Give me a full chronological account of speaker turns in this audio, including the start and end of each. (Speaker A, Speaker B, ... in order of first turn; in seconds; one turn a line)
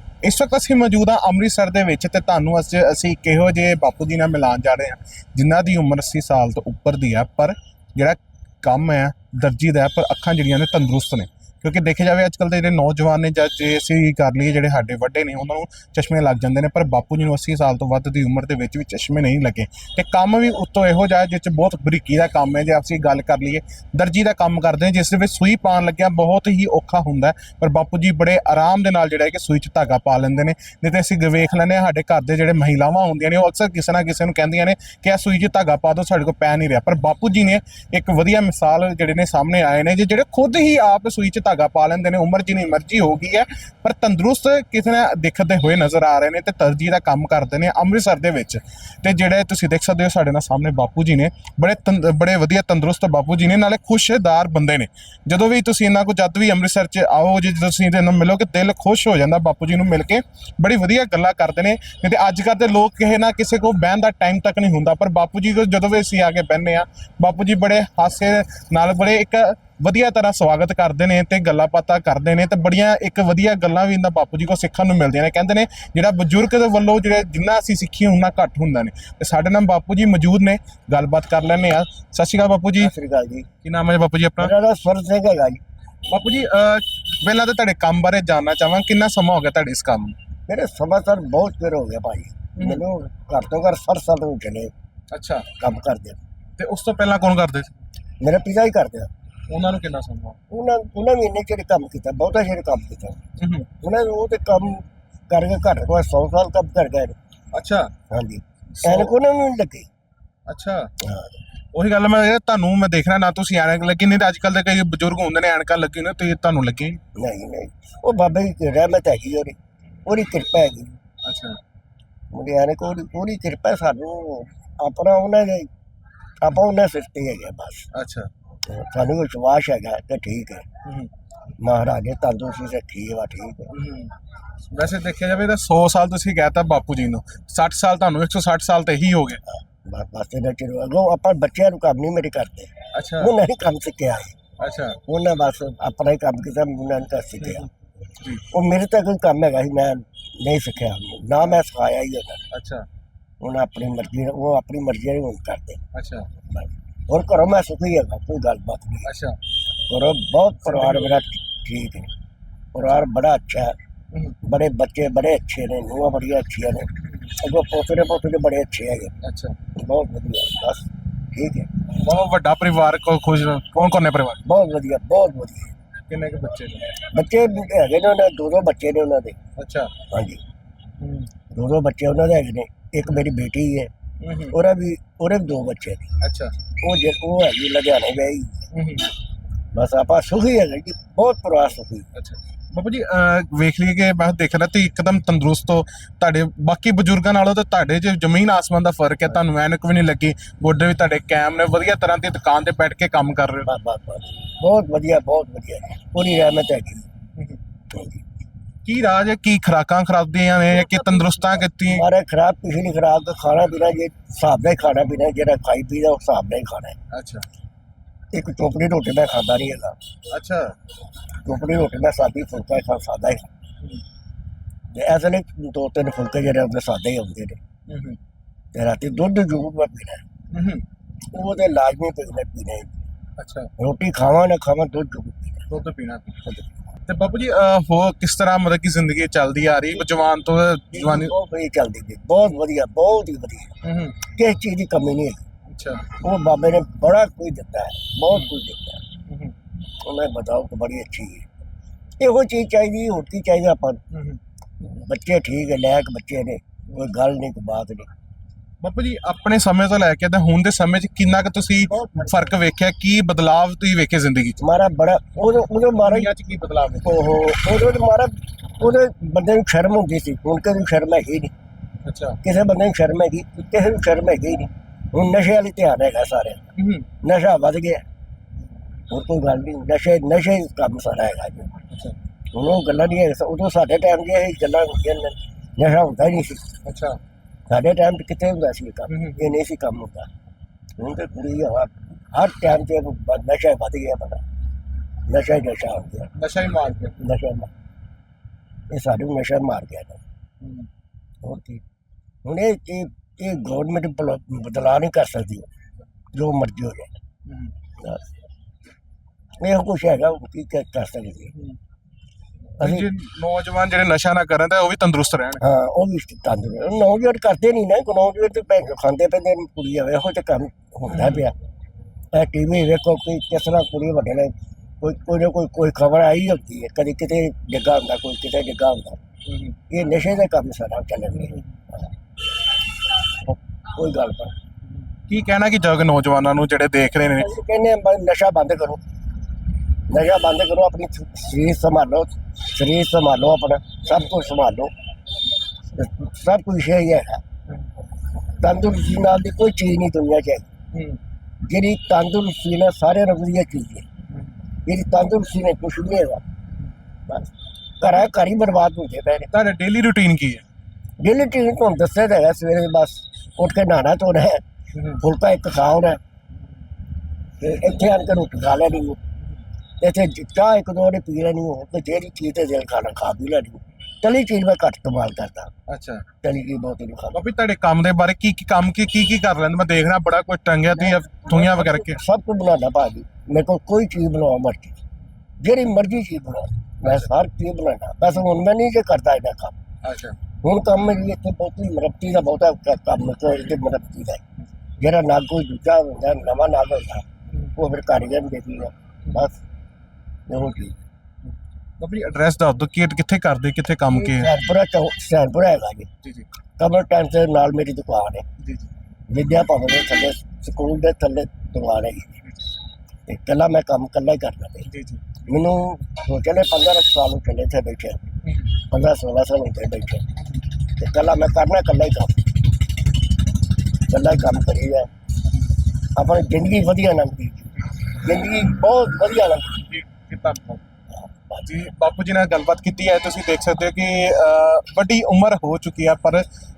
Speaker A: 0.2-82.9
Speaker B: 82.8-83.5
Speaker A: 83.6-84.5
Speaker B: 84.4-85.6
Speaker A: 86.1-90.1
Speaker B: 90.5-94.7
Speaker A: 92.5-92.8
Speaker A: 95.1-95.5
Speaker B: 95.6-96.2
Speaker A: 96.6-97.7
Speaker B: 98.2-99.1
Speaker A: 99.5-100.4
Speaker B: 100.5-103.2
Speaker A: 103.4-103.7
Speaker B: 103.8-107.2
Speaker A: 107.5-107.9
Speaker B: 108.1-109.9
Speaker A: 108.8-109.1
Speaker A: 110.5-110.9
Speaker B: 111.0-111.3
Speaker A: 111.7-117.0
Speaker B: 117.2-121.0
Speaker A: 121.2-121.6
Speaker B: 122.3-125.7
Speaker B: 126.4-127.9
Speaker A: 127.9-128.3
Speaker B: 128.7-130.7
Speaker A: 130.8-131.1
Speaker B: 131.6-133.7
Speaker A: 133.7-134.1
Speaker A: 134.7-139.4
Speaker B: 139.5-144.3
Speaker A: 142.9-143.3
Speaker A: 144.6-145.0
Speaker B: 145.1-147.7
Speaker A: 148.2-148.4
Speaker B: 148.5-152.4
Speaker A: 152.5-152.8
Speaker B: 153.4-155.8
Speaker A: 155.9-156.3
Speaker B: 156.5-159.1
Speaker A: 159.0-159.4
Speaker B: 159.9-162.1
Speaker A: 160.6-161.2
Speaker B: 162.7-163.8
Speaker B: 164.4-169.1
Speaker A: 167.0-167.3
Speaker A: 169.2-169.6
Speaker B: 169.7-171.8
Speaker A: 171.9-174.4
Speaker B: 174.4-175.7
Speaker A: 176.1-176.9
Speaker B: 177.1-179.4
Speaker A: 179.6-179.9
Speaker B: 180.1-180.4
Speaker A: 181.0-181.3
Speaker B: 181.5-183.9
Speaker A: 184.2-184.5
Speaker B: 184.5-186.1
Speaker A: 186.2-186.5
Speaker B: 186.8-188.7
Speaker A: 188.7-189.1
Speaker B: 189.7-192.1
Speaker A: 192.1-203.7
Speaker B: 203.7-207.1
Speaker B: 207.9-208.2
Speaker A: 208.8-212.0
Speaker B: 210.8-216.9
Speaker A: 217.1-217.4
Speaker B: 218.3-220.0
Speaker A: 220.3-220.7
Speaker B: 221.4-223.5
Speaker B: 224.9-227.6
Speaker A: 227.9-228.2
Speaker B: 228.7-230.2
Speaker A: 230.5-230.8
Speaker B: 231.3-233.0
Speaker A: 233.4-233.7
Speaker B: 233.8-235.7
Speaker A: 235.7-236.3
Speaker A: 237.1-241.3
Speaker B: 239.9-240.2
Speaker B: 240.9-243.7
Speaker A: 243.8-244.2
Speaker B: 244.3-245.4
Speaker A: 245.7-246.0
Speaker B: 246.2-249.0
Speaker A: 249.2-249.5
Speaker B: 250.0-251.5
Speaker B: 252.2-254.0
Speaker A: 254.1-254.4
Speaker B: 254.8-258.1
Speaker A: 258.8-264.6
Speaker B: 261.9-262.6
Speaker B: 264.6-266.3
Speaker A: 266.0-267.3
Speaker B: 267.0-271.5
Speaker A: 272.0-272.4
Speaker B: 272.4-278.0
Speaker A: 276.8-277.1
Speaker B: 279.1-281.8
Speaker B: 282.5-286.7
Speaker A: 286.8-287.2
Speaker B: 287.7-290.3
Speaker A: 289.1-289.6
Speaker B: 291.0-294.4
Speaker B: 295.3-296.3
Speaker A: 296.3-297.2
Speaker B: 297.2-297.7
Speaker B: 298.9-300.2
Speaker A: 300.6-300.9
Speaker B: 301.4-301.8
Speaker B: 302.4-305.7
Speaker B: 306.3-307.1
Speaker A: 307.4-307.7
Speaker B: 309.6-311.5
Speaker B: 312.8-313.1
Speaker A: 312.8-315.6
Speaker B: 315.6-321.6
Speaker A: 321.1-321.4
Speaker B: 322.3-329.2
Speaker A: 329.4-329.7
Speaker B: 329.9-331.6
Speaker A: 331.4-331.6
Speaker B: 333.9-334.5
Speaker A: 335.3-337.5
Speaker B: 337.3-339.0
Speaker B: 340.1-344.9
Speaker B: 345.9-347.4
Speaker B: 348.6-350.7
Speaker A: 350.9-351.2
Speaker B: 351.6-354.1
Speaker B: 354.8-356.4
Speaker B: 357.3-359.5
Speaker A: 359.5-360.6
Speaker B: 361.2-364.6
Speaker A: 364.9-365.2
Speaker B: 365.2-366.2
Speaker B: 367.6-369.2
Speaker B: 370.0-375.7
Speaker A: 375.9-376.2
Speaker B: 376.4-377.4
Speaker A: 377.3-382.2
Speaker B: 381.0-385.0
Speaker B: 385.6-389.8
Speaker A: 390.0-390.4
Speaker B: 390.6-394.4
Speaker B: 395.0-399.6
Speaker B: 400.5-401.0
Speaker A: 402.0-404.5
Speaker B: 404.1-406.1
Speaker B: 406.8-408.4
Speaker A: 408.6-408.9
Speaker B: 409.3-412.4
Speaker B: 413.3-414.9
Speaker A: 414.8-415.3
Speaker B: 415.4-418.2
Speaker B: 418.9-420.2
Speaker B: 420.9-422.5
Speaker B: 424.1-425.1
Speaker B: 426.1-429.8
Speaker A: 429.8-430.8
Speaker B: 431.1-431.6
Speaker A: 431.6-436.4